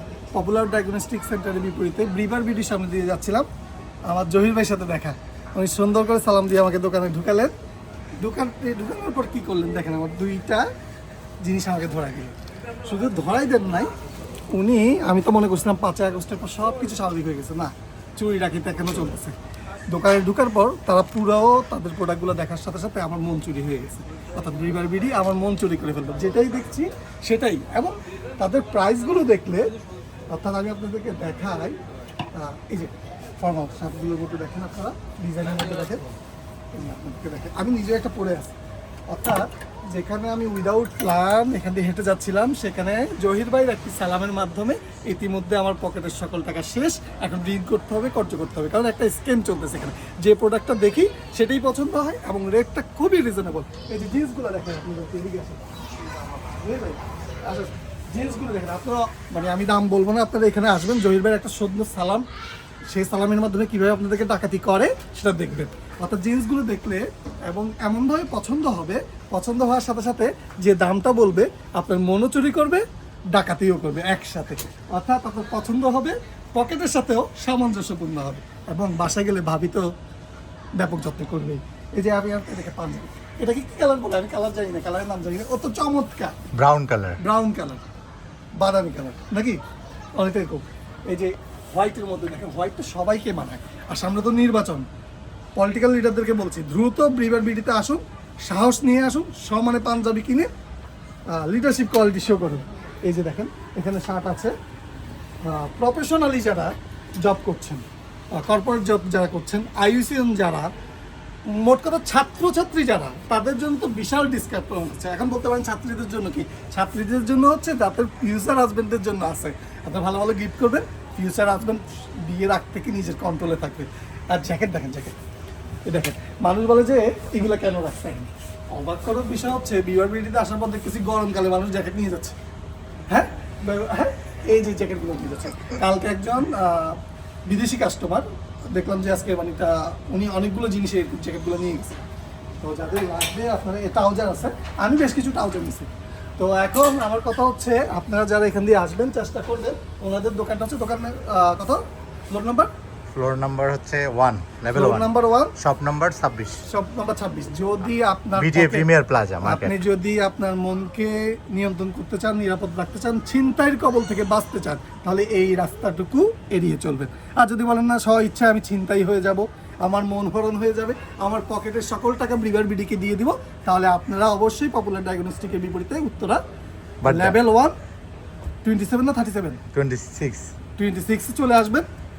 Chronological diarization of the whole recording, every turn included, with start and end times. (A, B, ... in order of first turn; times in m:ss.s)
0:00.3-0:03.5 A
0:04.1-0:07.5 A
0:08.2-0:10.7 A
0:11.4-0:12.3 A
0:12.8-0:13.9 A
0:14.5-0:19.4 A
0:19.9-0:29.7 A
0:30.3-0:31.8 A
0:32.4-0:36.0 A
0:36.7-0:38.6 A
0:39.1-1:02.3 A
1:02.9-1:19.9 A
1:20.8-1:26.4 A
1:26.6-1:27.2 B
1:27.2-1:27.8 A
1:28.6-1:29.6 A
1:30.2-1:34.9 A
1:35.6-1:40.5 A
1:41.3-1:44.5 A
1:45.4-1:50.7 A
1:51.5-2:05.2 A
2:05.9-2:12.4 A
2:13.1-2:22.0 A
2:22.6-2:32.7 A
2:33.1-2:36.6 B
2:34.7-2:35.5 A
2:36.7-2:38.9 A
2:38.4-2:39.8 B
2:39.4-2:56.4 A
2:57.0-2:57.4 B
2:57.0-2:57.8 A
2:58.6-2:59.6 A
2:59.7-3:00.5 B
3:00.8-3:01.9 A